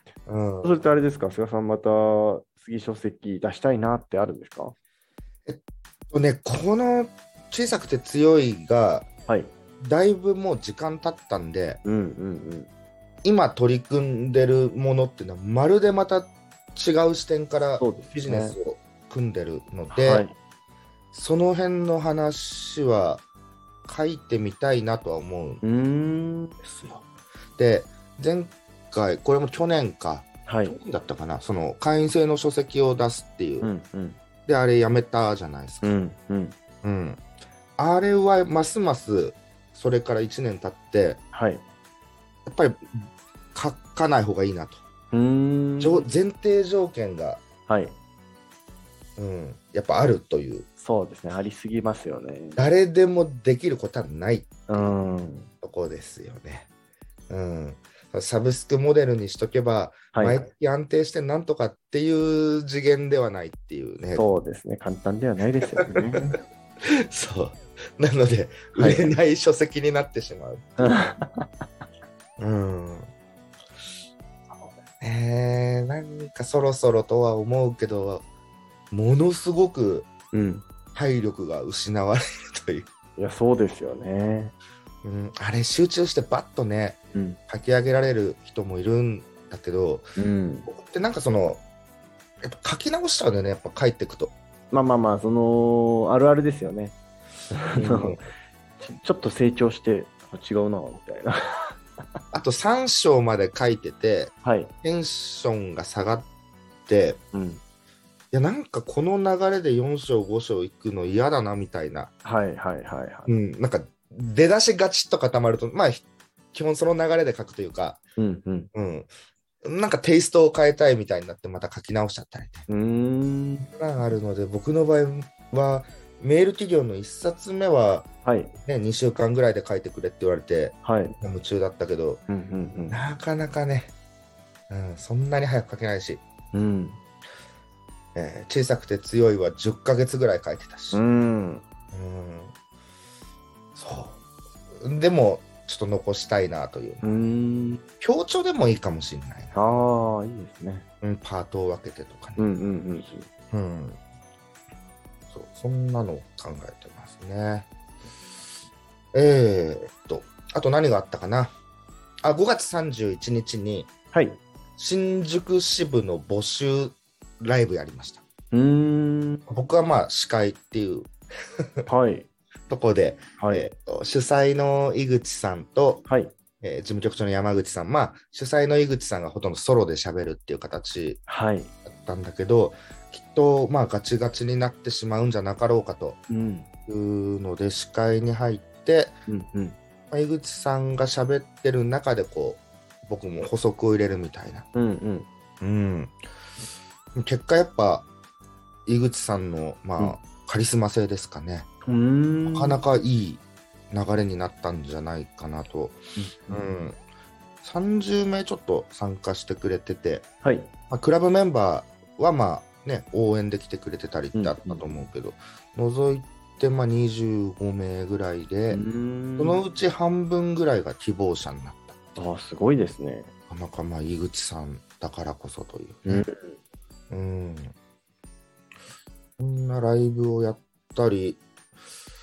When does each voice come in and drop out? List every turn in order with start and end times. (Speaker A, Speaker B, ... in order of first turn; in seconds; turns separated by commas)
Speaker A: 0.2-0.8, Speaker B: 0.6-4.7, Speaker A: 6.1-9.1, Speaker B: 9.3-9.5, Speaker A: 9.8-11.8, Speaker B: 11.8-12.7, Speaker A: 13.2-20.3, Speaker B: 17.8-18.6, Speaker B: 19.9-20.3, Speaker A: 21.1-23.2, Speaker A: 23.9-25.6, Speaker B: 25.6-26.6, Speaker A: 26.6-27.1, Speaker A: 27.6-33.7, Speaker B: 30.4-30.8, Speaker B: 33.6-34.2, Speaker A: 34.5-35.9, Speaker B: 35.8-36.5, Speaker A: 36.8-37.2, Speaker A: 37.8-41.2, Speaker B: 41.3-41.6, Speaker A: 42.5-44.8, Speaker B: 45.1-46.1, Speaker A: 45.8-47.4, Speaker B: 47.7-47.9, Speaker A: 49.2-50.7, Speaker B: 50.8-52.6, Speaker A: 52.5-54.9, Speaker B: 54.7-55.5, Speaker A: 55.6-56.7, Speaker A: 57.3-64.3, Speaker B: 60.1-60.4, Speaker B: 64.1-66.4, Speaker A: 65.8-71.0, Speaker B: 68.7-69.1, Speaker B: 70.8-71.5, Speaker A: 72.4-73.1, Speaker A: 75.0-78.2, Speaker A: 78.9-80.1, Speaker B: 80.3-80.6, Speaker A: 80.9-82.9, Speaker B: 83.2-84.5, Speaker A: 85.0-90.1, Speaker B: 90.2-90.7, Speaker A: 90.7-91.6, Speaker A: 92.4-94.3, Speaker B: 94.7-96.9, Speaker B: 97.5-98.2, Speaker A: 97.8-98.2, Speaker B: 98.8-101.8, Speaker A: 102.3-106.3, Speaker B: 104.4-104.7, Speaker A: 106.9-107.2, Speaker B: 107.3-107.6, Speaker A: 108.3-112.1, Speaker B: 112.2-113.3, Speaker A: 113.3-118.0, Speaker B: 118.2-118.7, Speaker A: 118.7-119.1, Speaker A: 119.6-122.7, Speaker B: 122.7-123.7, Speaker A: 123.7-128.1, Speaker B: 128.2-128.5, Speaker A: 128.6-132.2, Speaker B: 130.8-131.2, Speaker B: 132.3-133.0, Speaker A: 132.9-133.9, Speaker A: 134.7-136.2, Speaker B: 136.5-137.0, Speaker A: 138.1-141.0, Speaker B: 140.9-141.6, Speaker A: 141.9-142.5, Speaker A: 143.7-144.2, Speaker A: 144.8-147.2, Speaker B: 147.0-147.8, Speaker A: 148.0-149.6, Speaker B: 149.5-150.8, Speaker A: 151.0-152.5, Speaker B: 152.4-153.2, Speaker A: 153.5-154.0, Speaker A: 155.3-157.7, Speaker A: 159.1-161.5, Speaker A: 162.2-163.9, Speaker B: 164.1-164.4, Speaker A: 164.8-168.2, Speaker B: 168.5-169.4, Speaker A: 169.5-171.9, Speaker B: 171.9-172.3, Speaker A: 172.7-176.0, Speaker B: 173.4-173.7, Speaker B: 176.1-176.3, Speaker A: 176.6-181.2, Speaker B: 181.3-181.7, Speaker A: 181.8-186.2, Speaker B: 186.3-186.7, Speaker A: 186.9-189.2, Speaker B: 189.3-189.8, Speaker A: 190.1-194.7, Speaker B: 194.7-195.3, Speaker A: 195.6-196.2, Speaker A: 197.1-198.1, Speaker A: 198.8-201.7, Speaker B: 201.8-202.8, Speaker A: 202.5-207.0, Speaker B: 206.2-206.7, Speaker A: 207.6-210.2, Speaker B: 210.4-210.7, Speaker A: 210.9-218.8, Speaker B: 214.3-215.0, Speaker B: 218.7-219.6, Speaker A: 219.4-222.2, Speaker B: 222.2-223.3, Speaker A: 223.5-226.3, Speaker B: 226.1-226.6, Speaker A: 227.1-227.7, Speaker A: 229.4-231.4